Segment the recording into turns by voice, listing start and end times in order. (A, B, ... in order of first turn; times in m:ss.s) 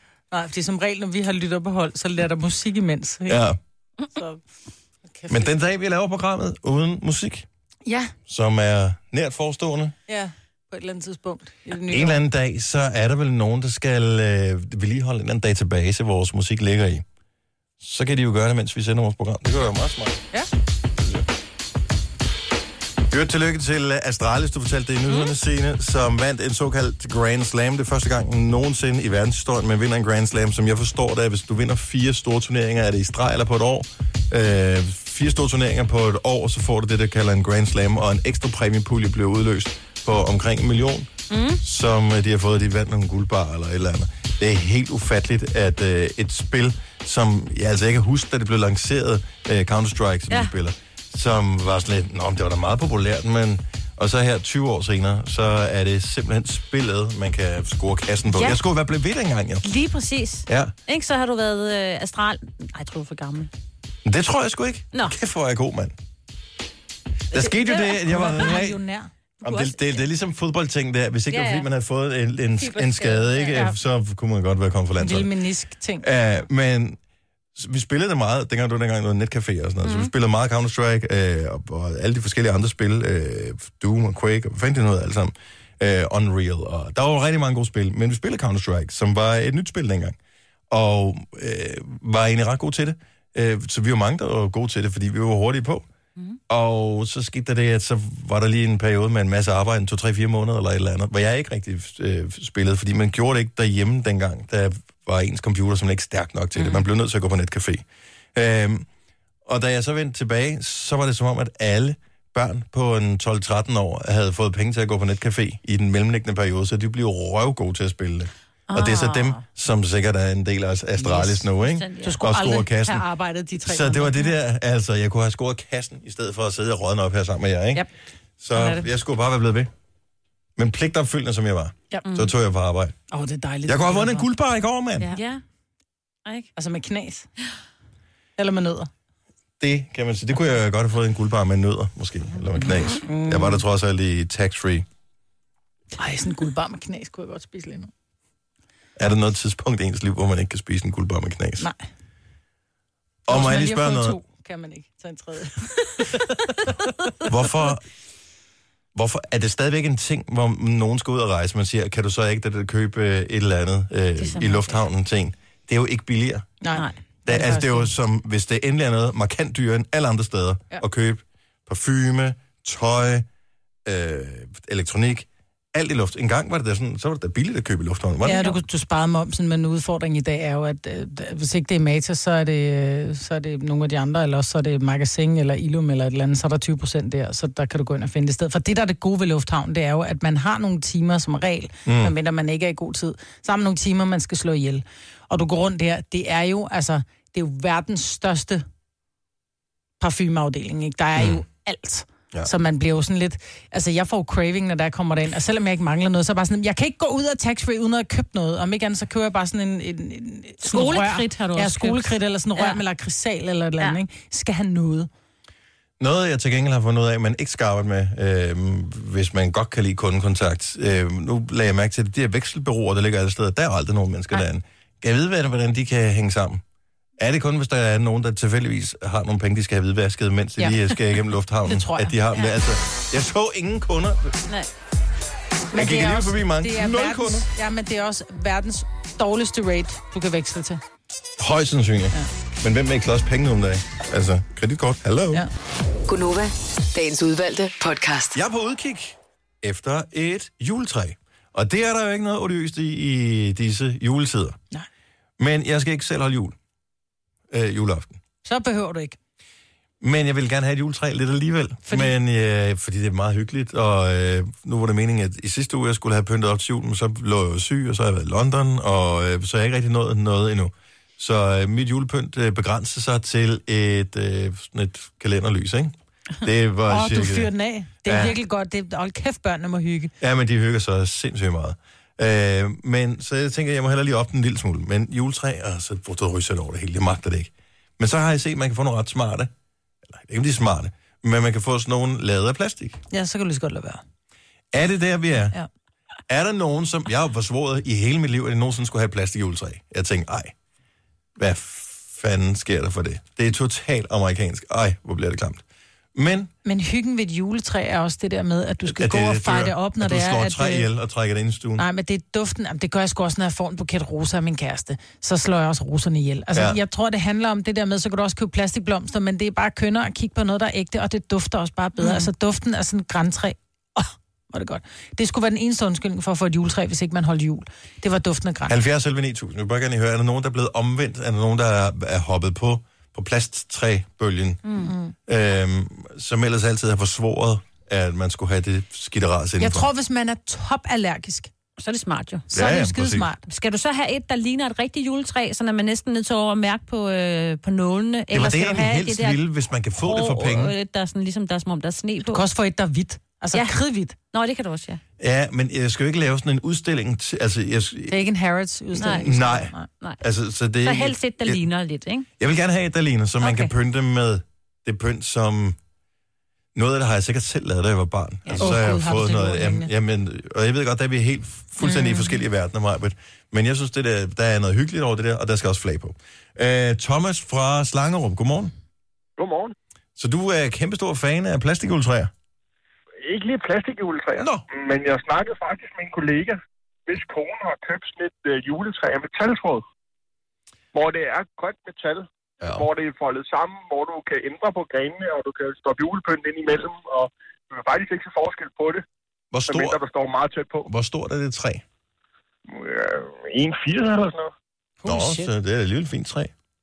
0:00.3-0:03.4 A
0:03.3-0:03.6 B
0:04.1-0:04.4 A
0:05.1-0:05.5 A
0:05.3-0:07.5 B
0:07.9-0:08.1 A
0:08.3-0:10.0 B
0:10.1-0:12.2 A
0:11.9-0:17.0 B
0:17.8-0:20.2 B
0:21.0-0:21.3 B
0:23.1-0:41.1 B
0:41.3-0:41.6 C
0:41.6-0:59.7 B
0:58.3-0:58.6 C
0:59.6-1:03.5 C
1:00.5-1:00.7 B
1:04.0-1:06.0 B
1:07.3-1:08.8 B
1:07.3-1:08.6 C
1:07.7-1:09.1 A
1:09.4-1:10.0 C
1:09.4-1:15.3 B
1:11.3-1:11.7 C
1:12.6-1:13.7 C
1:15.0-1:16.0 A
1:16.0-1:17.0 B
1:17.6-1:30.2 B
1:19.8-1:20.1 C
1:30.7-1:35.9 B
1:36.5-1:48.9 B
1:46.6-1:46.8 C
1:49.5-2:03.0 B
1:58.7-1:59.4 C
2:01.0-2:02.2 C
2:02.0-2:04.3 A
2:03.6-2:07.8 B
2:08.4-2:09.7 B
2:10.6-2:13.0 B
2:12.1-2:12.3 C
2:13.1-2:14.3 A
2:13.7-2:15.1 B
2:15.1-2:15.4 C
2:16.6-2:17.3 A
2:18.4-2:18.9 A
2:19.6-2:24.9 B
2:23.1-2:23.6 A
2:26.0-2:27.9 A
2:29.0-2:31.7 B
2:33.3-2:34.2 B
2:33.3-2:36.7 A
2:37.3-2:37.9 B
2:39.0-2:46.5 B
2:44.2-2:44.8 C
2:46.6-2:47.9 A
2:47.3-2:53.3 B
2:53.8-2:58.5 B
2:58.2-3:18.6 A
2:58.3-2:58.6 C
3:11.9-3:12.1 B
3:20.0-3:35.1 A
3:21.2-3:21.4 B
3:30.6-3:32.8 C
3:36.0-3:46.6 B
3:47.2-3:54.4 B
3:50.6-3:50.9 A
3:51.7-3:52.2 A
3:55.7-4:00.8 A
3:55.7-3:57.5 B
4:01.4-4:05.5 B
4:06.1-4:08.4 D
4:08.3-4:14.6 B
4:15.4-4:16.6 B
4:17.5-4:18.2 B
4:18.4-4:19.2 A
4:20.0-4:37.5 B
4:21.9-4:22.1 A
4:36.9-4:40.1 A
4:38.0-4:38.3 B
4:40.2-4:49.5 B
4:50.1-4:53.0 B
4:53.1-4:54.0 A
4:54.7-4:55.6 B
4:56.3-5:00.5 B
5:01.4-5:05.6 B
5:06.2-5:06.5 B
5:06.6-5:10.9 A
5:08.8-5:11.8 B
5:11.8-5:28.7 A
5:16.5-5:16.8 B
5:22.0-5:22.3 C
5:28.7-5:34.6 B
5:34.6-5:34.9 C
5:34.8-5:35.1 A
5:35.3-5:39.9 B
5:39.6-5:41.5 A
5:41.8-5:42.5 C
5:42.5-5:43.4 A
5:42.5-5:43.3 B
5:43.4-5:49.4 C
5:48.3-5:50.8 B
5:50.0-5:52.4 C
5:52.3-5:54.2 A
5:53.5-5:53.8 C
5:54.3-5:55.0 C
5:55.2-5:58.2 B
5:58.1-5:59.9 A
5:59.0-6:00.2 C
5:59.0-6:01.7 B
6:00.8-6:02.3 C
6:02.4-6:05.8 B
6:03.4-6:03.7 C
6:06.8-6:18.7 B
6:08.4-6:09.0 C
6:08.6-6:09.9 A
6:11.9-6:12.2 C
6:19.4-6:19.8 E
6:20.2-6:22.3 B
6:23.2-6:29.8 E
6:24.4-6:24.6 B
6:30.9-6:39.0 E
6:39.5-6:40.0 B
6:39.7-6:40.9 E
6:40.9-6:41.8 B
6:42.7-6:44.5 E
6:45.0-6:45.5 A
6:45.0-6:46.5 B